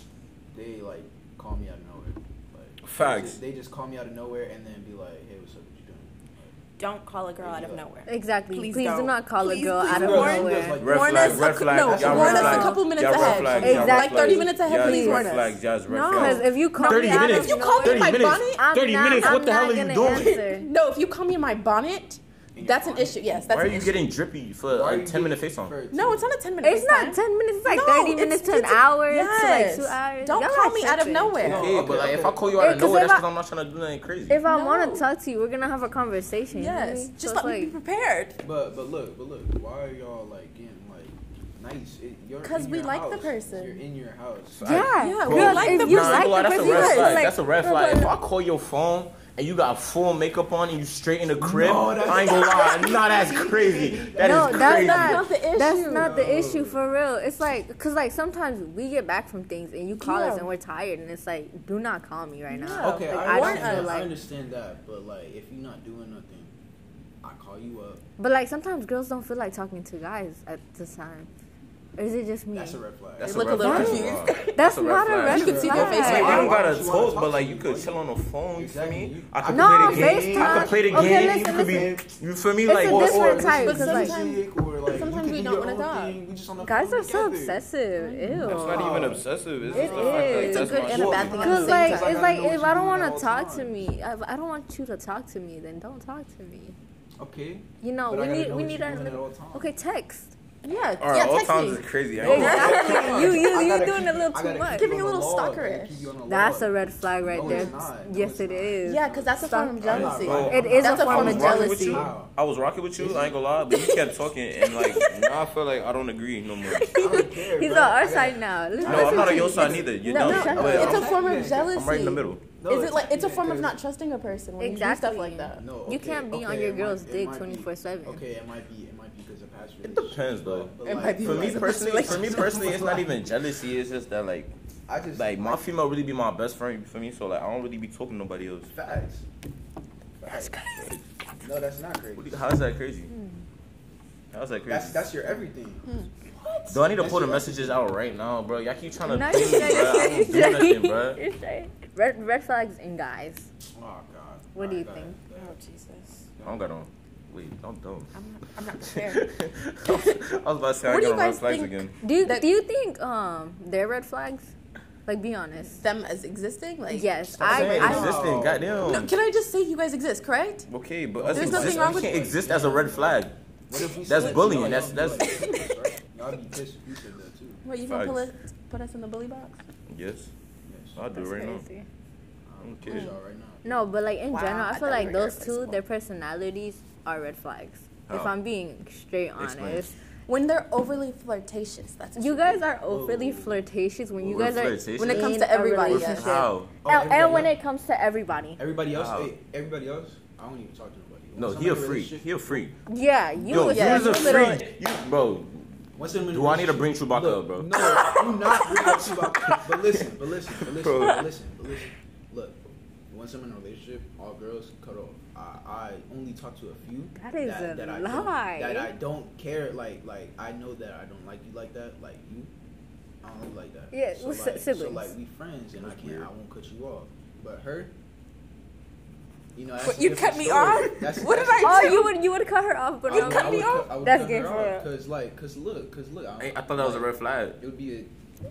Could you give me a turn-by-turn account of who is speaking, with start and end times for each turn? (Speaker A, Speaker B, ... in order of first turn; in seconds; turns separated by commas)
Speaker A: 0.5-6.5, Speaker B: 2.9-3.4, Speaker C: 6.8-18.6, Speaker A: 7.4-7.8, Speaker D: 8.1-10.8, Speaker A: 9.9-14.0, Speaker B: 10.8-20.4, Speaker D: 12.1-12.9, Speaker D: 13.5-15.4, Speaker D: 16.1-20.7, Speaker C: 20.0-24.0, Speaker A: 22.6-23.5, Speaker B: 23.5-25.8, Speaker A: 24.7-26.3, Speaker C: 25.9-31.9, Speaker D: 26.6-31.4, Speaker A: 31.4-32.9, Speaker B: 31.4-34.4, Speaker D: 32.6-33.3, Speaker D: 34.3-37.8, Speaker C: 34.5-35.1, Speaker C: 36.5-38.4, Speaker A: 38.4-44.9, Speaker C: 42.4-43.8, Speaker B: 44.6-55.3, Speaker D: 44.6-48.1, Speaker C: 45.0-47.3, Speaker A: 51.4-54.9, Speaker C: 52.5-52.9, Speaker D: 54.2-64.1, Speaker C: 54.2-56.1, Speaker A: 55.8-56.8, Speaker C: 60.0-60.5, Speaker C: 62.5-64.0, Speaker A: 62.8-66.5, Speaker A: 67.2-68.0, Speaker D: 68.2-71.3, Speaker D: 72.0-72.8, Speaker A: 72.5-74.2, Speaker B: 73.2-83.4, Speaker C: 73.2-74.6, Speaker D: 73.6-76.5, Speaker C: 75.2-76.6, Speaker A: 75.2-78.0, Speaker A: 78.6-82.1, Speaker D: 79.5-81.9, Speaker D: 82.7-84.2, Speaker A: 82.8-87.6, Speaker C: 83.5-86.2, Speaker D: 86.6-89.0, Speaker C: 88.0-88.8, Speaker A: 88.4-93.8, Speaker B: 88.4-91.6, Speaker D: 89.7-96.8, Speaker C: 89.9-92.2, Speaker A: 97.2-99.7, Speaker D: 97.8-100.3, Speaker C: 100.6-103.4, Speaker B: 101.0-103.4, Speaker A: 102.2-112.3, Speaker D: 102.2-104.9, Speaker C: 104.7-106.1, Speaker D: 106.3-112.0, Speaker C: 107.4-107.8, Speaker C: 108.8-112.0, Speaker B: 109.8-117.0, Speaker A: 113.0-113.4, Speaker C: 113.7-115.1, Speaker D: 116.7-121.1, Speaker A: 117.0-121.9, Speaker B: 118.8-122.4, Speaker C: 120.0-125.6, Speaker A: 122.6-123.8, Speaker D: 124.6-128.2, Speaker A: 125.6-133.3, Speaker B: 129.8-134.5, Speaker C: 130.8-132.8, Speaker A: 134.9-135.7, Speaker B: 135.1-138.7, Speaker A: 138.7-139.2, Speaker A: 140.2-140.6, Speaker D: 140.3-140.9, Speaker A: 141.4-142.4, Speaker B: 142.2-143.1, Speaker B: 144.3-145.1, Speaker A: 144.7-147.9, Speaker B: 146.7-151.2, Speaker D: 149.0-153.5, Speaker A: 153.8-155.6, Speaker D: 154.6-155.2, Speaker C: 155.3-156.3, Speaker A: 156.4-156.6, Speaker B: 156.4-158.1, Speaker C: 158.1-159.3, Speaker B: 158.9-162.0, Speaker C: 159.9-160.2, Speaker C: 160.8-162.5, Speaker D: 162.0-164.5, Speaker D: 165.1-165.8, Speaker C: 165.7-170.7, Speaker D: 166.9-168.1, Speaker B: 167.4-169.1, Speaker A: 167.4-169.0, Speaker B: 170.7-173.3, Speaker A: 171.2-177.6, Speaker C: 171.3-172.2, Speaker B: 174.0-175.5, Speaker C: 174.2-175.7, Speaker C: 177.6-179.6, Speaker B: 177.9-178.3, Speaker B: 179.9-180.3, Speaker A: 180.7-181.0, Speaker B: 180.9-181.7, Speaker D: 181.1-181.9, Speaker A: 182.5-183.8, Speaker B: 182.6-183.1, Speaker C: 182.9-183.2, Speaker D: 183.7-189.9, Speaker C: 184.3-185.8, Speaker B: 188.1-188.3, Speaker B: 189.4-189.9, Speaker C: 190.3-192.6, Speaker D: 192.2-198.6, Speaker A: 192.8-193.7, Speaker B: 194.2-196.7, Speaker C: 195.0-196.4, Speaker A: 196.8-197.6, Speaker A: 198.6-202.7, Speaker B: 198.9-199.3, Speaker B: 201.4-202.8, Speaker D: 202.9-204.7, Speaker B: 203.5-208.1, Speaker C: 203.5-204.7, Speaker A: 206.0-222.5, Speaker C: 208.0-208.3, Speaker B: 208.9-210.1, Speaker B: 210.6-211.3, Speaker D: 217.2-218.9, Speaker A: 223.2-227.9, Speaker D: 223.9-225.1, Speaker B: 226.0-226.2, Speaker A: 229.6-232.1, Speaker C: 229.8-232.2, Speaker D: 231.6-234.9, Speaker A: 233.1-238.1, Speaker C: 233.1-233.9, Speaker B: 236.4-237.6